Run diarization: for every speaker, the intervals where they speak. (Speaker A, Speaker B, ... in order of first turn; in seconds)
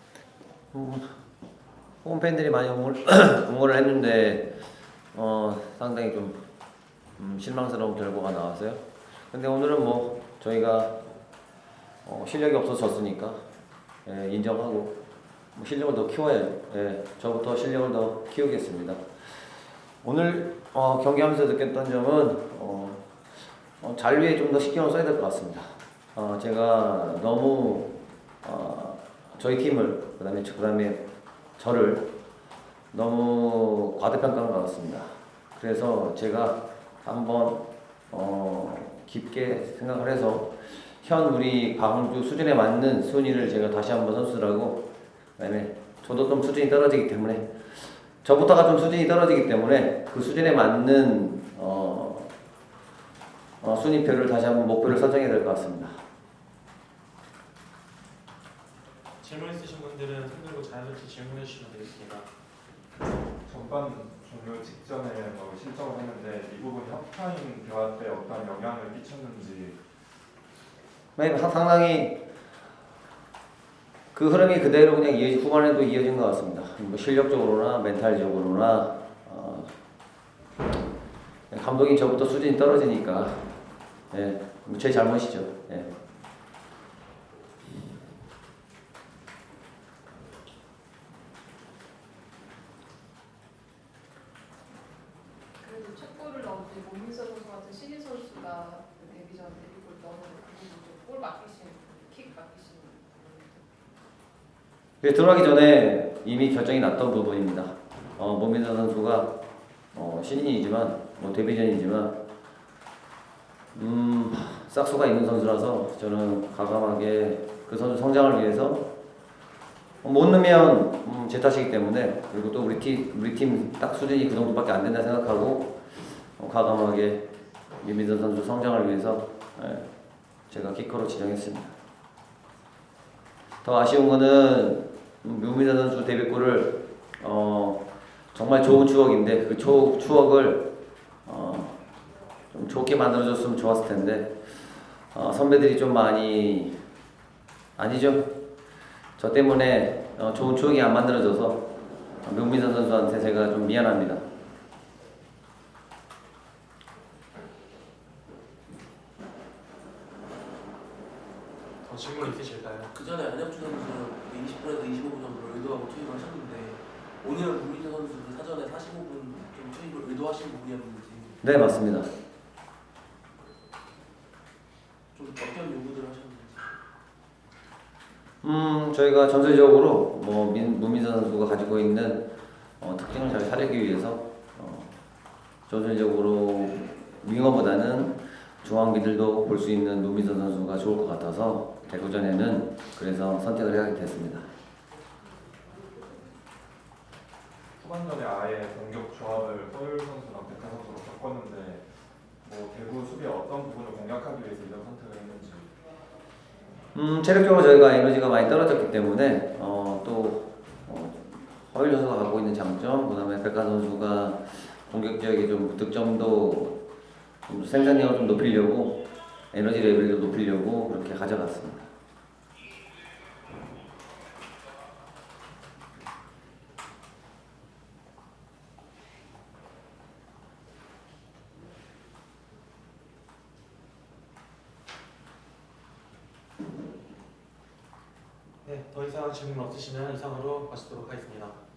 Speaker A: 0.7-1.1, 2.0-4.5, 5.1-6.4, 7.2-11.0, 12.0-13.4, 14.0-14.9, 15.5-19.0, 20.0-23.1, 23.8-31.0, 31.6-32.1, 32.9-44.9, 45.4-52.3, 53.6-56.0, 71.2-72.2, 74.1-79.7, 81.5-83.5, 84.1-85.9, 105.0-109.3, 109.9-112.2, 113.7-118.9, 120.0-127.3, 127.8-129.8, 130.5-131.7, 133.6-140.7, 141.2-141.7, 142.5-146.7, 147.8-148.3, 149.2-151.6, 152.2-154.2, 171.4-172.1, 178.4-184.9, 185.7-194.5, 206.9-216.8, 217.5-221.9
Speaker B: 59.2-62.3, 161.8-162.9, 238.6-241.6
Speaker C: 63.4-69.8, 197.8-201.8, 202.4-205.7
Speaker D: 95.6-103.7
Speaker E: 162.9-171.4, 175.1-176.7